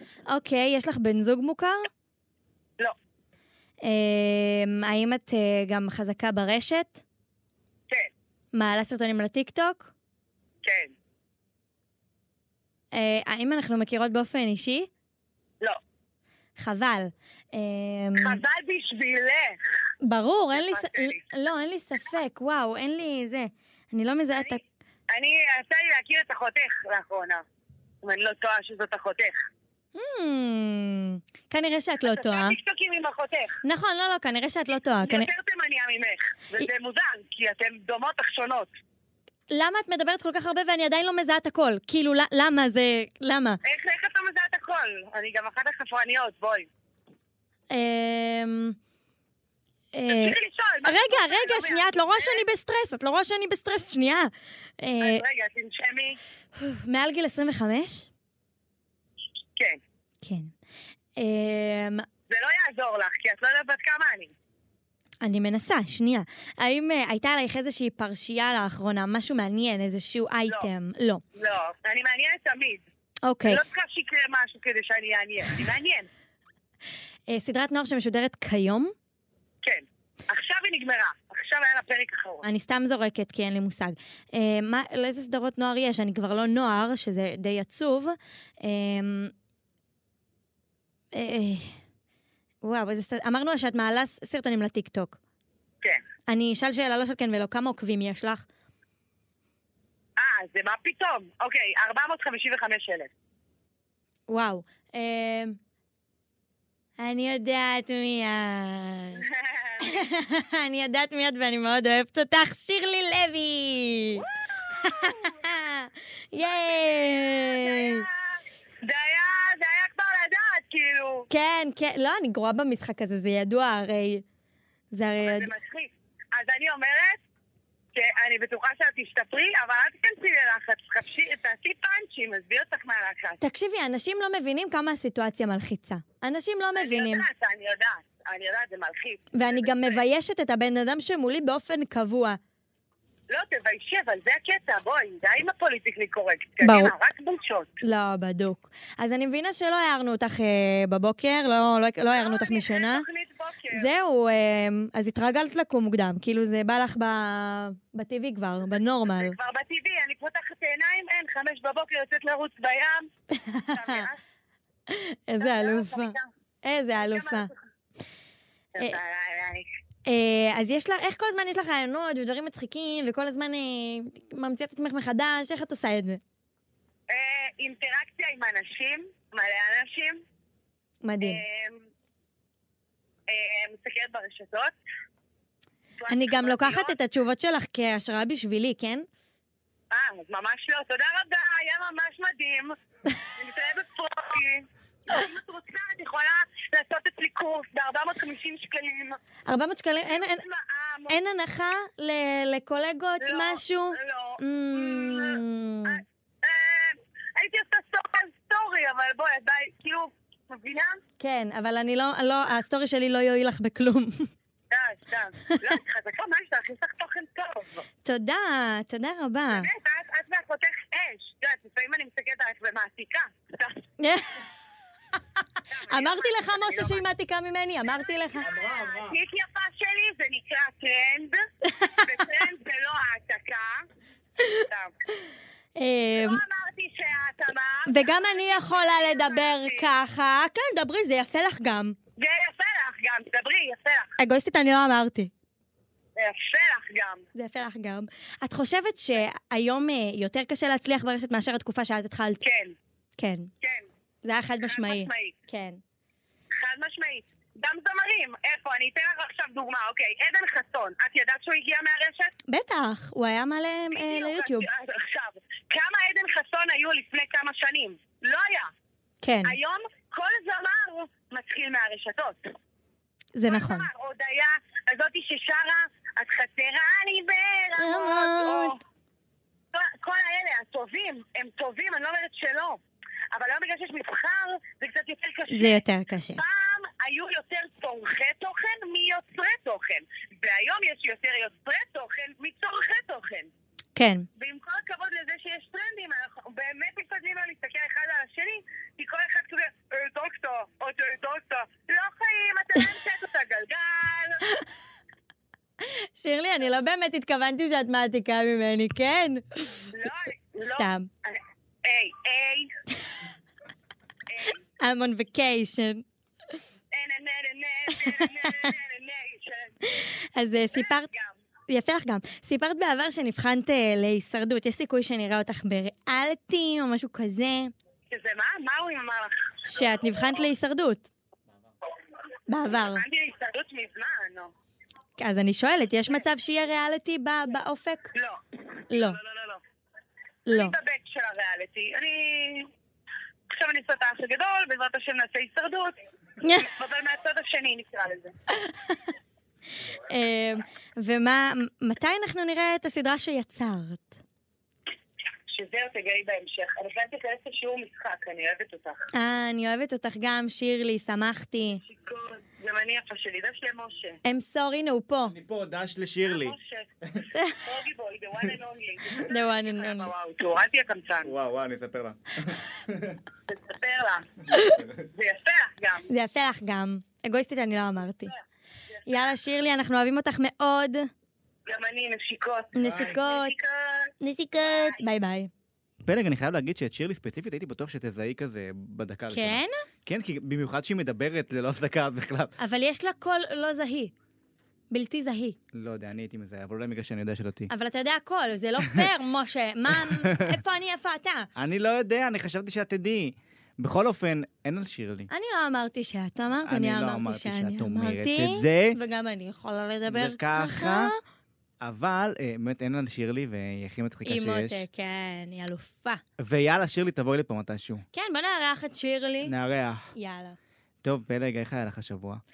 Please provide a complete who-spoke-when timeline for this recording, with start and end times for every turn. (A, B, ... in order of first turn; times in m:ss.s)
0:00.3-0:01.9 A
0:03.8-0:07.0 A
0:08.5-0:09.9 A
0:10.6-0:10.9 B
0:12.9-0:14.9 A
0:16.6-0:18.4 A
0:18.2-0:19.6 B
0:20.0-0:24.6 A
0:20.5-0:21.2 B
0:25.1-0:27.4 B
0:28.0-0:29.4 B
0:30.0-0:32.6 A
0:32.0-0:33.6 B
0:33.6-0:35.3 A
0:35.0-0:38.7 B
0:39.5-0:43.6 A
0:43.6-0:46.7 B
0:47.7-0:48.8 A
0:49.9-0:55.2 A
0:50.1-0:52.4 B
0:55.0-0:56.2 B
0:56.6-0:58.1 A
1:00.2-1:00.5 A
1:01.2-1:02.1 A
1:02.3-1:04.3 B
1:05.2-1:11.2 A
1:11.4-1:12.8 B
1:13.2-1:13.6 A
1:13.4-1:16.1 B
1:17.3-1:18.9 A
1:19.6-1:22.5 B
1:22.4-1:29.3 A
1:31.1-1:31.8 A
1:32.6-1:35.2 A
1:36.3-1:38.5 A
1:40.2-1:43.1 B
1:44.3-1:45.6 A
1:47.0-1:49.3 A
1:49.2-1:50.0 B
1:49.8-1:54.3 A
1:54.2-1:55.4 B
1:54.8-1:58.1 A
1:56.4-2:01.3 B
2:01.3-2:04.2 A
2:04.9-2:05.5 A
2:05.2-2:07.2 B
2:08.0-2:13.4 B
2:13.4-2:17.3 A
2:16.8-2:20.0 B
2:19.3-2:22.4 A
2:23.3-2:27.7 B
2:26.6-2:26.9 A
2:27.8-2:33.1 A
2:32.1-2:33.9 B
2:33.7-2:39.4 A
2:39.1-2:43.1 B
2:43.3-2:44.1 A
2:43.7-2:44.2 B
2:44.9-2:47.5 A
2:45.4-2:46.3 B
2:47.0-2:47.6 B
2:48.7-2:49.7 B
2:50.1-2:56.2 A
2:57.1-3:00.2 B
3:01.0-3:01.4 A
3:01.2-3:01.8 B
3:03.3-3:04.8 B
3:06.0-3:07.0 B
3:06.1-3:09.1 A
3:09.9-3:12.8 B
3:13.3-3:19.2 B
3:19.5-3:20.4 A
3:20.1-3:21.2 B
3:21.1-3:26.0 A
3:23.2-3:31.0 B
3:31.2-3:34.3 A
3:34.7-3:37.9 B
3:35.5-3:35.8 A
3:38.0-3:39.7 A
3:39.5-3:43.8 B
3:44.0-3:44.4 A
3:45.4-3:48.5 A
3:45.7-3:47.0 B
3:48.3-3:53.9 B
3:48.4-3:49.2 C
3:51.6-3:52.3 A
3:54.4-3:54.7 A
3:54.6-3:55.0 B
3:55.8-3:56.4 A
3:56.2-4:00.0 B
3:57.9-4:02.0 A
4:02.2-4:04.2 B
4:04.2-4:05.3 A
4:06.2-4:07.3 B
4:07.4-4:12.4 A
4:12.4-4:12.7 B
4:13.2-4:13.5 A
4:13.6-4:13.9 B
4:14.2-4:15.8 A
4:14.6-4:15.4 B
4:16.5-4:22.3 B
4:22.5-4:24.7 A
4:23.9-4:28.7 B
4:29.2-4:29.6 A
4:29.4-4:32.5 B
4:33.3-4:33.9 A
4:33.5-4:38.8 B
4:37.8-4:38.8 A
4:39.7-4:42.8 B
4:43.3-4:45.8 B
4:45.5-4:46.4 A
4:46.4-4:53.5 B
4:54.0-4:54.3 A
4:54.4-5:04.6 B
5:05.8-5:09.9 A
5:09.9-5:12.7 B
5:10.6-5:11.1 A
5:14.3-5:14.6 B
5:14.8-5:16.7 A
5:16.9-5:19.7 B
5:17.9-5:18.7 A
5:19.8-5:21.1 A
5:20.7-5:21.3 B
5:21.7-5:27.7 A
5:28.1-5:29.7 B
5:29.6-5:31.1 A
5:32.5-5:33.0 A
5:32.7-5:34.5 B
5:35.2-5:38.1 A
5:38.2-5:39.6 B
5:38.9-5:39.2 A
5:40.5-5:40.8 A
5:40.5-5:42.7 B
5:43.5-5:46.0 B
5:46.4-5:46.7 A
5:46.6-5:48.3 B
5:48.5-5:49.1 A
5:49.8-5:54.2 A
5:55.5-5:59.1 B
5:59.1-6:01.8 A
6:01.8-6:04.2 B
6:04.2-6:05.4 A
6:05.3-6:06.6 C
6:06.2-6:06.9 B
6:07.3-6:07.8 A
6:07.6-6:11.3 B
6:09.2-6:10.1 A
6:11.2-6:13.2 C
6:13.5-6:14.3 B
6:14.5-6:14.8 A
6:15.1-6:16.1 B
6:16.1-6:18.3 A
6:19.0-6:19.3 B
6:19.1-6:21.1 A
6:21.7-6:25.0 B
6:22.7-6:23.6 A
6:22.8-6:23.1 C
6:24.2-6:25.5 A
6:26.0-6:32.5 C
6:29.3-6:29.8 A
6:32.6-6:34.1 A
6:34.9-6:35.6 A
6:35.7-6:37.7 C
6:37.7-6:41.5 A
6:39.9-6:40.6 C
6:41.6-6:45.3 C
6:45.3-6:51.2 A
6:46.6-6:49.0 C
6:50.1-6:51.1 C
6:51.8-6:54.8 C
6:54.2-6:56.2 A
6:56.4-6:58.0 C
6:58.1-6:59.5 A
6:59.4-7:00.1 C
7:00.1-7:00.6 A
7:01.0-7:02.4 C